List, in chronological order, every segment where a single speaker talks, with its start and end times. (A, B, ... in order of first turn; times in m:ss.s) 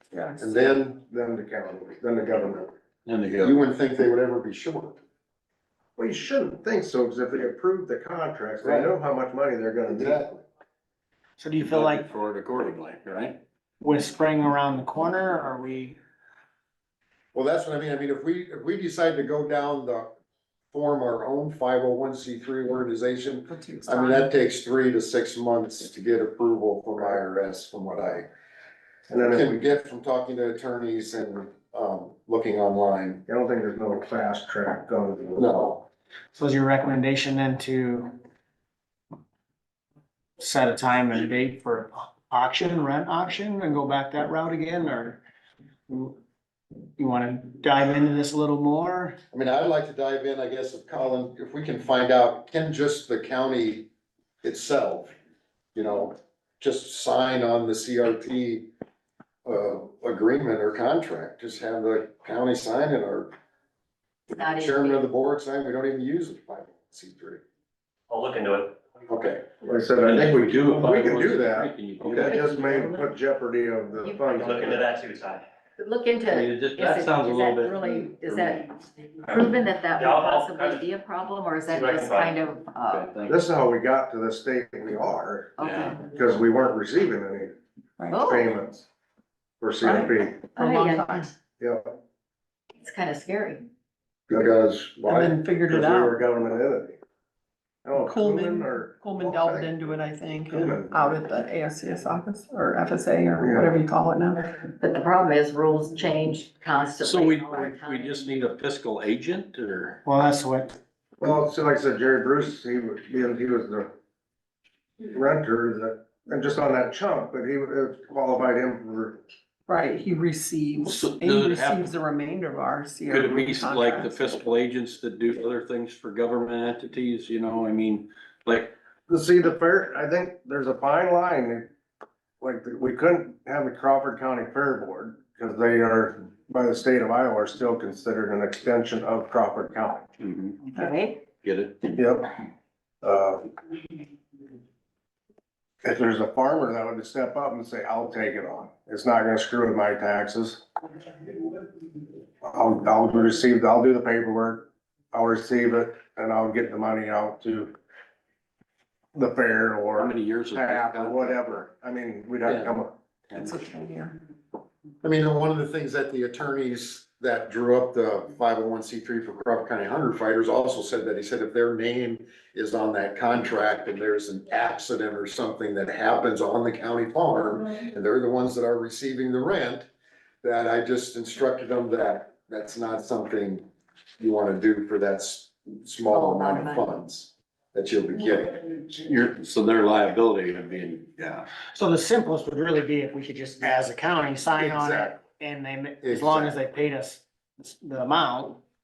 0:00.1-0:00.8 A
0:00.4-0:01.0 B
0:01.0-0:02.7 C
0:03.1-0:03.6 D
0:03.4-0:05.0 B
0:06.0-0:10.3 C
0:08.6-0:09.0 B
0:09.9-0:10.4 B
0:11.4-0:12.1 E
0:11.6-0:13.4 D
0:13.8-0:16.0 E
0:17.3-0:20.1 B
0:20.7-0:28.3 B
0:23.5-0:24.3 A
0:29.1-0:29.5 C
0:29.3-0:33.2 B
0:33.3-0:35.5 C
0:35.4-0:35.8 B
0:36.3-0:38.1 E
0:40.4-0:45.2 E
0:45.9-0:46.1 E
0:47.0-0:49.2 E
0:49.3-0:53.9 B
0:54.4-0:55.2 B
0:55.8-0:58.7 B
0:59.4-1:03.3 B
1:04.3-1:07.4 B
1:04.3-1:05.1 F
1:08.1-1:08.8 G
1:09.1-1:09.4 B
1:09.6-1:14.9 C
1:10.0-1:12.5 D
1:12.2-1:13.1 F
1:14.0-1:14.4 F
1:14.3-1:15.4 G
1:15.8-1:23.1 F
1:16.3-1:18.6 D
1:20.0-1:20.8 G
1:21.7-1:22.3 G
1:22.9-1:23.4 D
1:23.3-1:25.6 C
1:25.6-1:26.1 F
1:25.6-1:26.0 D
1:26.1-1:27.6 C
1:28.0-1:28.3 A
1:28.1-1:28.5 F
1:28.2-1:28.9 C
1:29.6-1:30.4 C
1:30.6-1:31.3 A
1:30.6-1:31.3 F
1:31.6-1:32.0 C
1:32.8-1:33.6 F
1:34.3-1:35.4 B
1:34.3-1:34.7 C
1:35.1-1:36.2 A
1:35.7-1:37.0 C
1:37.8-1:39.7 C
1:38.0-1:44.7 A
1:40.5-1:41.0 C
1:43.4-1:43.7 C
1:44.8-1:48.3 F
1:47.0-1:50.0 D
1:50.0-1:50.8 E
1:51.2-1:54.0 C
1:55.0-1:59.2 C
1:59.7-2:04.2 A
2:00.8-2:01.9 D
2:03.1-2:08.7 D
2:09.1-2:11.7 C
2:12.4-2:20.1 C
2:20.2-2:20.6 D
2:20.7-2:21.2 F
2:21.4-2:22.0 D
2:22.0-2:22.3 C
2:23.0-2:23.5 C
2:25.8-2:30.6 C
2:31.3-2:31.5 C
2:32.4-2:37.7 C
2:39.1-2:42.9 C
2:40.0-2:41.4 D
2:42.5-2:42.7 D
2:43.3-2:43.6 D
2:43.3-2:44.2 A
2:45.0-2:59.9 B
3:00.4-3:03.7 B
3:04.2-3:08.6 B
3:06.1-3:06.9 F
3:08.9-3:11.5 D
3:11.7-3:18.6 E
3:14.6-3:15.2 B
3:16.0-3:16.6 B